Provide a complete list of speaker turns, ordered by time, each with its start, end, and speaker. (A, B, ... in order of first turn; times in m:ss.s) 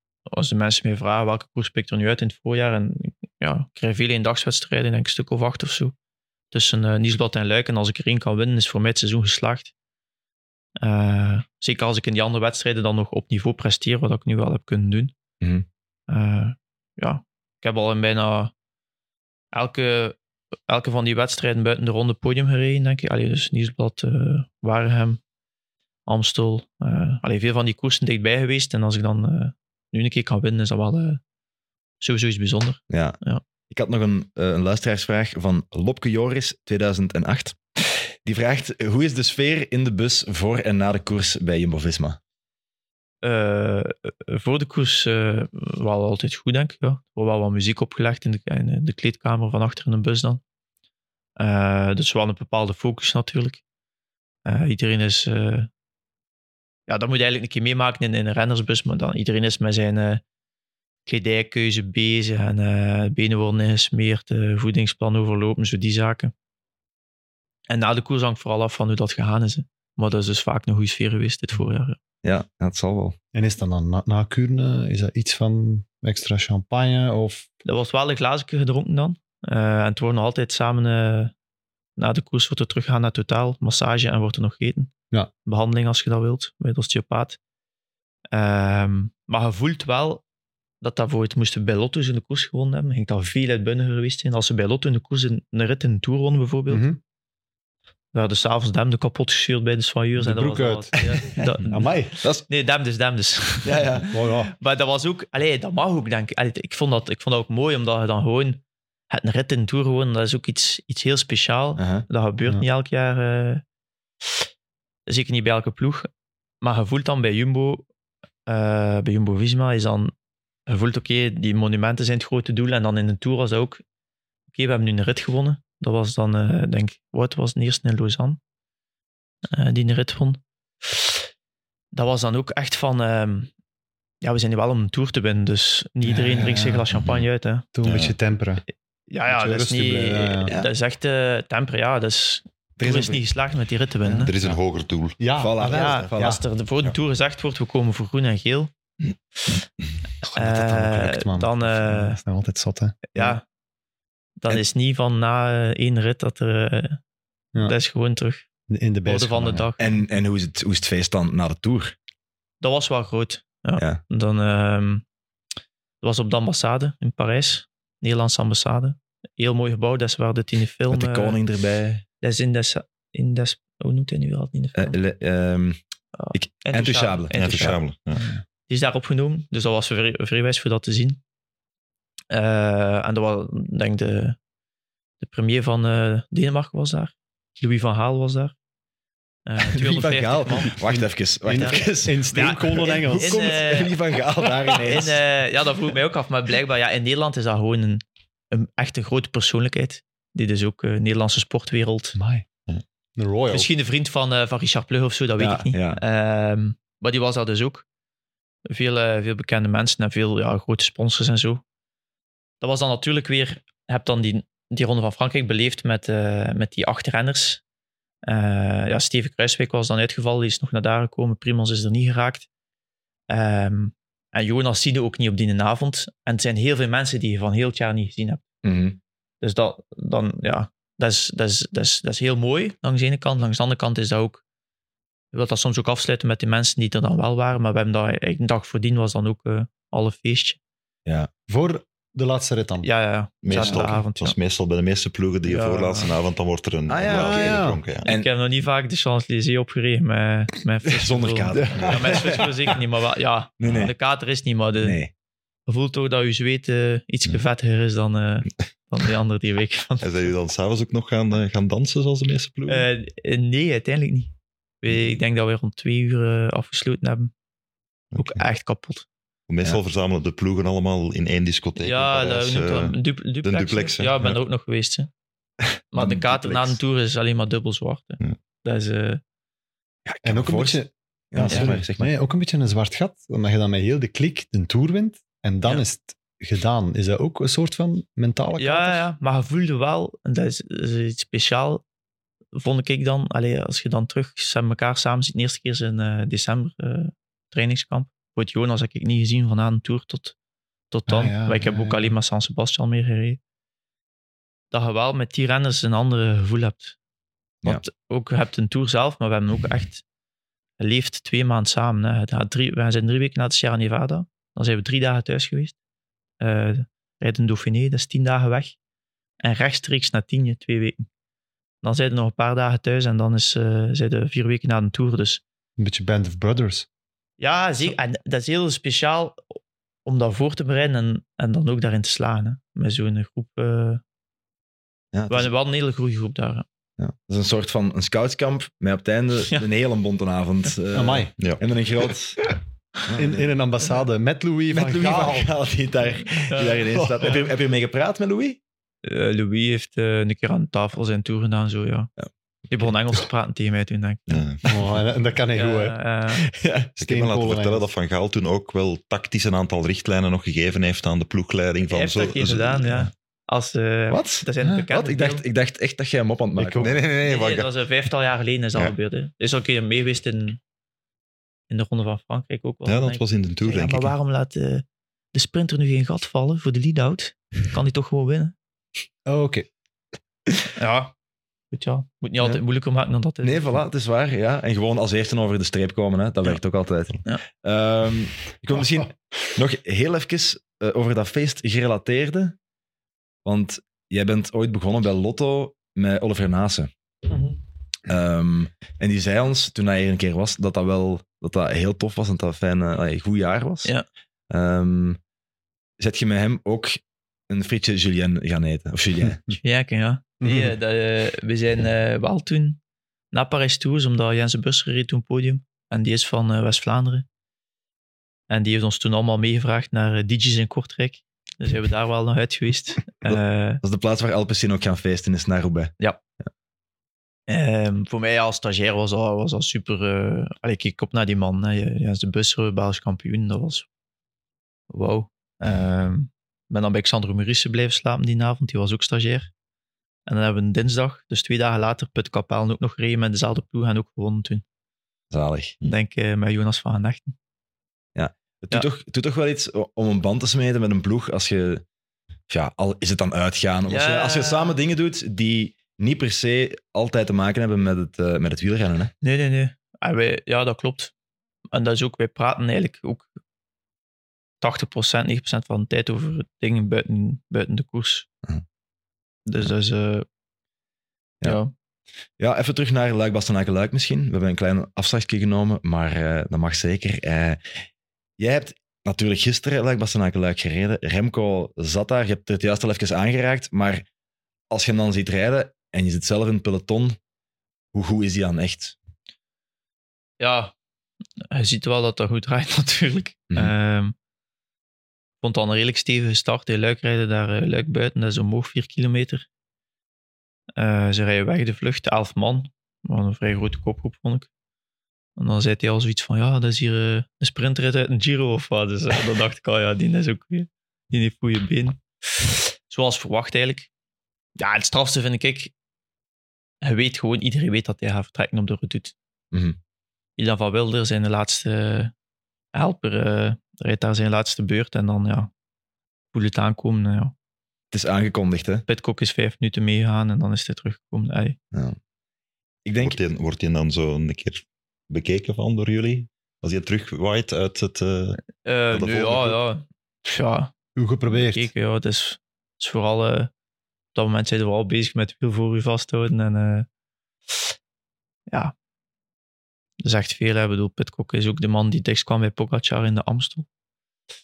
0:00.3-0:05.9 A
0:06.5-0:09.7 A
0:10.8-0:15.2 A
0:15.4-0:15.7 B
0:16.1-0:18.5 A
0:19.5-0:20.2 A
0:20.7-0:25.2 A
0:26.1-0:31.2 A
0:32.0-0:33.4 A
0:32.9-0:42.2 B
0:43.2-0:50.4 A
0:51.4-0:53.6 A
0:54.4-0:55.7 A
0:56.9-1:00.2 A
1:01.1-1:06.3 A
1:07.7-1:12.0 A
1:12.2-1:13.2 B
1:13.3-1:17.5 C
1:17.6-1:21.3 A
1:22.0-1:24.9 A
1:25.5-1:27.4 A
1:28.3-1:30.2 A
1:30.8-1:36.9 A
1:36.7-1:37.0 C
1:38.1-1:41.9 A
1:40.2-1:42.2 C
1:42.5-1:53.6 A
1:43.6-1:44.1 B
1:44.1-1:44.5 C
1:51.8-1:52.1 B
1:55.1-1:56.1 A
1:56.6-1:57.9 A
1:58.5-2:00.1 A
2:00.7-2:03.8 A
2:04.5-2:08.4 A
2:09.5-2:11.1 A
2:11.9-2:13.5 A
2:14.2-2:17.7 A
2:16.0-2:16.9 C
2:17.7-2:18.6 C
2:17.8-2:18.2 D
2:19.1-2:24.3 A
2:19.3-2:20.5 C
2:22.8-2:23.2 B
2:24.1-2:25.2 D
2:25.2-2:26.4 C
2:25.4-2:26.4 B
2:25.6-2:28.7 A
2:30.2-2:33.4 C
2:30.2-2:32.2 A
2:33.1-2:33.4 A
2:34.4-2:37.0 A
2:37.6-2:38.5 A
2:38.7-2:39.7 C
2:39.0-2:39.9 A
2:39.8-2:42.0 B
2:42.6-2:45.0 A
2:46.0-2:51.4 A
2:50.9-2:52.0 B
2:52.2-2:55.0 A
2:54.8-2:55.8 B
2:56.2-2:57.7 A
2:56.3-2:57.8 B
2:57.3-2:58.3 D
2:58.2-2:58.4 C
2:58.7-3:01.2 A
3:02.3-3:04.4 A
3:05.2-3:08.6 A
3:09.5-3:10.8 A
3:09.6-3:15.2 B
3:10.8-3:13.6 C
3:11.5-3:14.0 A
3:14.8-3:22.2 A
3:22.2-3:22.4 C
3:23.2-3:23.7 C
3:23.5-3:27.8 A
3:25.4-3:26.0 B
3:28.7-3:31.6 A
3:32.6-3:37.6 A
3:38.2-3:42.5 A
3:43.3-3:48.4 A
3:48.6-3:49.0 B
3:49.4-3:54.4 A
3:55.3-4:00.6 A
4:01.5-4:02.9 C
4:02.8-4:04.4 A
4:03.4-4:08.1 D
4:03.5-4:03.8 C
4:05.5-4:06.1 A
4:06.9-4:08.3 B
4:07.1-4:07.8 C
4:08.0-4:15.0 A
4:10.9-4:12.5 B
4:11.6-4:12.5 C
4:13.6-4:13.9 B
4:14.8-4:15.1 B
4:15.7-4:20.3 A
4:20.0-4:22.9 D
4:22.7-4:27.3 A
4:28.1-4:28.4 D
4:28.2-4:29.1 A
4:29.5-4:34.4 D
4:31.8-4:35.1 A
4:35.9-4:39.2 A
4:35.9-4:36.8 B
4:40.1-4:42.1 B
4:40.2-4:49.1 C
4:48.6-4:51.8 A
4:52.5-5:00.4 A
5:00.9-5:03.4 A
5:01.1-5:02.2 C
5:04.7-5:07.0 A
5:07.6-5:10.0 A
5:10.8-5:15.8 A
5:16.4-5:18.8 A
5:19.4-5:21.1 A
5:21.8-5:25.4 A
5:25.8-5:26.9 C
5:27.4-5:29.4 A
5:30.0-5:34.0 A
5:35.1-5:35.5 B
5:35.3-5:36.7 A
5:37.0-5:42.4 B
5:40.9-5:41.3 C
5:43.1-5:43.4 B
5:43.1-5:45.5 C
5:44.7-5:48.6 B
5:46.5-5:47.4 A
5:47.0-5:47.3 C
5:49.0-5:52.1 A
5:52.7-5:54.4 A
5:54.3-5:54.6 D
5:54.6-5:56.0 C
5:55.6-5:56.5 A
5:56.5-5:56.9 B
5:57.0-6:03.1 D
5:57.0-5:57.9 C
6:01.9-6:05.4 A
6:04.1-6:06.9 B
6:04.6-6:04.9 C
6:06.6-6:06.9 C
6:06.8-6:07.7 D
6:07.2-6:10.6 A
6:11.7-6:18.5 A
6:12.9-6:14.1 D
6:19.3-6:19.7 C
6:20.8-6:21.1 A
6:21.7-6:23.8 A
6:23.4-6:32.6 B
6:33.4-6:36.9 B
6:37.3-6:37.6 A
6:38.1-6:43.9 B
6:44.5-6:45.2 B
6:46.0-6:49.4 B
6:49.6-6:52.8 A
6:50.4-6:50.7 C
6:53.3-6:57.3 A
6:58.5-7:03.8 A
7:03.3-7:05.9 B
7:07.5-7:13.9 A
7:14.9-7:19.5 A
7:20.3-7:24.6 A
7:25.3-7:25.8 B
7:25.8-7:27.4 A
7:28.2-7:31.8 B
7:32.5-7:39.1 B
7:33.9-7:34.8 A
7:39.2-7:41.1 A
7:41.7-7:43.3 A
7:44.6-7:48.3 A
7:49.5-7:50.2 A
7:51.4-7:51.7 A
7:52.4-7:57.9 B
7:58.4-8:04.1 B
8:04.7-8:07.2 B
8:07.9-8:09.0 B
8:10.4-8:10.7 A
8:11.5-8:14.1 A
8:15.4-8:19.5 A
8:20.8-8:24.5 A
8:25.4-8:33.9 A
8:34.6-8:35.7 A
8:36.8-8:39.2 A
8:39.5-8:39.8 B
8:40.4-8:42.1 A
8:42.7-8:45.5 A
8:46.3-8:47.3 A
8:47.9-8:48.8 B
8:48.9-8:51.6 A
8:51.7-8:52.0 B
8:52.8-8:53.2 B
8:53.0-8:58.4 D
8:58.6-9:00.7 A
8:58.9-8:59.6 D
9:01.0-9:01.7 C
9:01.3-9:03.5 A
9:04.1-9:06.9 A
9:10.0-9:13.7 A